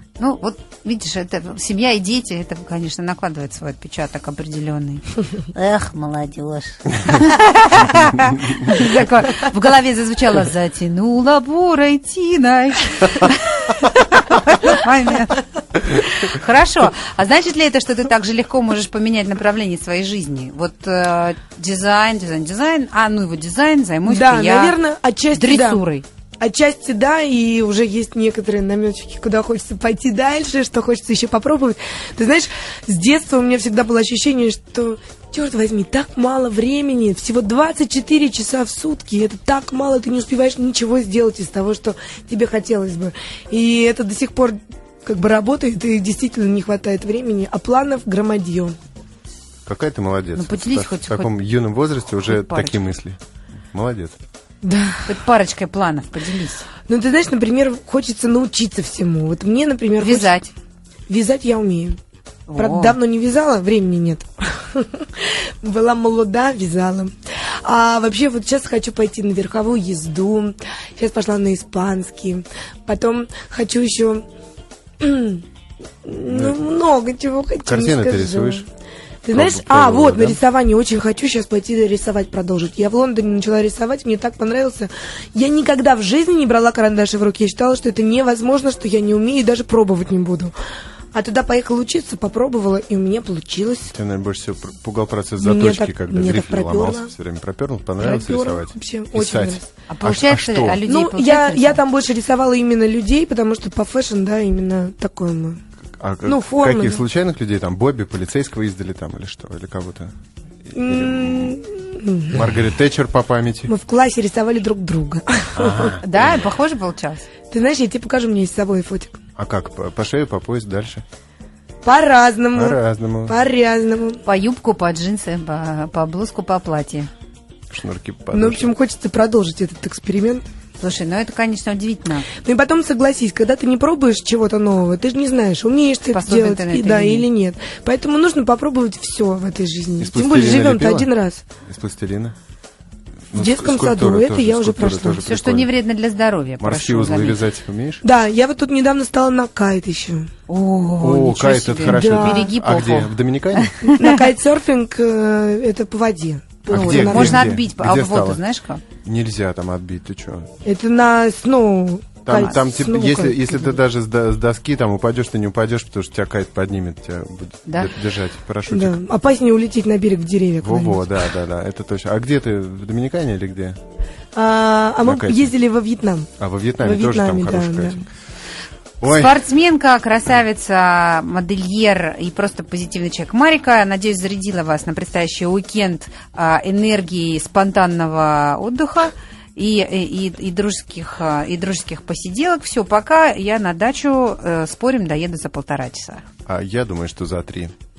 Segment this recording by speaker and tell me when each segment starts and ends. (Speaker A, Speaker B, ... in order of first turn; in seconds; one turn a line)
Speaker A: 0.2-24.8
Speaker B: 24.1-25.8
Speaker A: 25.3-26.1
Speaker B: 26.4-48.8
Speaker C: 49.7-53.2
Speaker A: 50.4-51.3
Speaker A: 52.3-52.8
Speaker C: 53.7-54.2
Speaker B: 54.6-55.0
Speaker A: 55.0-56.7
Speaker B: 56.9-60.4
Speaker A: 60.0-60.5
Speaker B: 61.1-62.0
Speaker A: 62.5-63.0
Speaker B: 62.6-74.2
Speaker B: 75.0-75.4
Speaker B: 76.0-78.7
Speaker C: 76.3-76.6
Speaker C: 77.6-78.7
Speaker B: 79.2-90.5
Speaker C: 79.3-80.4
Speaker B: 91.1-93.9
Speaker C: 93.9-100.8
Speaker B: 95.4-97.1
Speaker B: 98.0-99.7
Speaker A: 99.9-101.8
Speaker B: 100.9-105.6
Speaker C: 106.0-110.1
Speaker B: 106.3-107.0
Speaker C: 110.7-111.6
Speaker B: 110.7-112.4
Speaker C: 112.3-113.7
Speaker B: 113.7-116.0
Speaker C: 115.6-116.4
Speaker A: 116.0-117.3
Speaker B: 117.5-119.2
Speaker C: 119.4-121.0
Speaker B: 121.8-124.2
Speaker C: 122.5-123.4
Speaker A: 124.2-127.1
Speaker C: 127.7-128.7
Speaker B: 128.3-130.4
Speaker A: 130.8-132.3
Speaker B: 132.4-141.4
Speaker A: 136.1-137.3
Speaker C: 140.0-141.1
Speaker C: 141.7-142.3
Speaker C: 143.3-145.7
Speaker B: 143.3-145.2
Speaker A: 145.2-147.5
Speaker C: 146.6-148.0
Speaker B: 148.0-150.3
Speaker A: 150.5-154.2
Speaker C: 151.0-153.8
Speaker B: 151.8-152.5
Speaker B: 153.9-157.5
Speaker A: 156.7-158.8
Speaker C: 156.7-158.4
Speaker C: 159.0-160.5
Speaker B: 160.7-163.5
Speaker C: 162.2-169.0
Speaker A: 162.3-162.6
Speaker B: 168.7-171.1
Speaker C: 170.6-173.8
Speaker B: 174.3-176.3
Speaker C: 175.1-175.5
Speaker C: 176.4-178.1
Speaker B: 176.8-178.0
Speaker C: 179.0-179.3
Speaker A: 179.0-196.2
Speaker C: 196.5-197.7